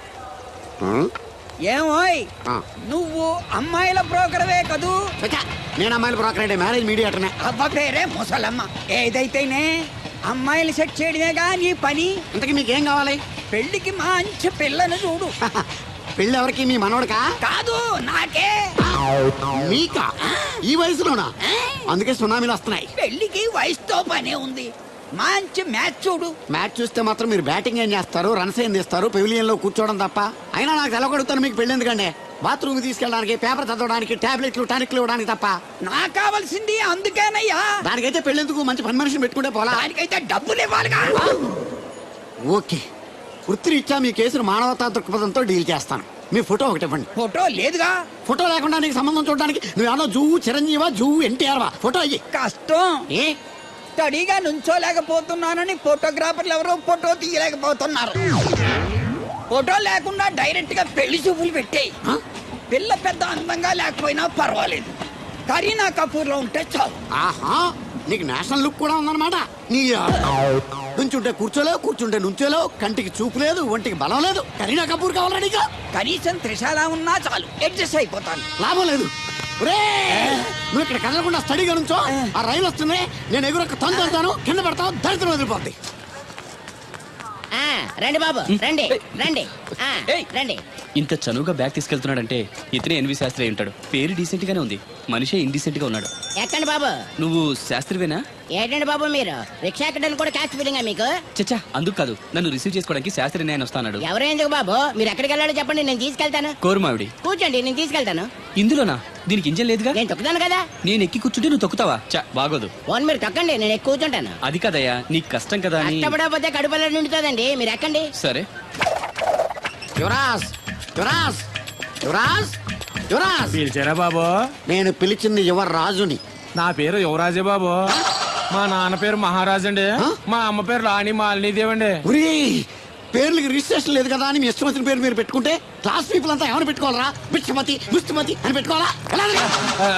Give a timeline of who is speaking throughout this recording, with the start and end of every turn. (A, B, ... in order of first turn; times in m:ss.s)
0:00.8-0:01.1 A
0:01.7-0:02.3 B
0:02.8-0:05.0 B
0:05.2-0:07.3 A
0:07.4-0:09.7 B
0:10.3-0:12.2 B
0:12.3-0:13.2 A
0:13.5-0:15.3 B
0:16.2-0:17.2 A
0:17.4-0:18.7 B
0:19.5-0:20.1 A
0:20.6-0:21.3 A
0:21.9-0:22.9 A
0:23.0-0:26.4 B
0:26.5-0:35.6 A
0:35.8-0:37.8 B
0:37.8-0:39.8 A
0:39.7-0:41.2 B
0:42.4-0:42.8 A
0:43.5-0:47.1 A
0:47.1-0:47.9 B
0:48.2-0:52.2 A
0:52.3-0:53.0 B
0:54.0-0:58.2 B
0:59.5-1:01.9 B
1:02.7-1:04.9 B
1:05.5-1:06.9 B
1:07.1-1:10.3 A
1:10.9-1:15.7 A
1:15.9-1:18.5 B
1:18.6-1:25.7 A
1:27.5-1:30.6 C
1:31.0-1:36.1 D
1:36.4-1:37.0 C
1:37.2-1:38.2 D
1:38.6-1:41.2 C
1:41.4-1:44.0 D
1:44.0-1:46.5 C
1:46.6-1:47.1 D
1:47.2-1:48.3 C
1:48.6-1:50.0 D
1:49.9-1:50.6 C
1:50.8-1:52.7 D
1:52.9-1:54.3 C
1:54.4-1:56.1 D
1:55.8-1:58.1 C
1:58.2-1:58.5 D
2:00.0-2:01.4 A
2:02.0-2:02.5 A
2:03.1-2:03.6 A
2:03.6-2:04.4 E
2:04.7-2:06.2 A
2:06.6-2:07.8 E
2:08.5-2:12.0 E
2:12.0-2:19.5 A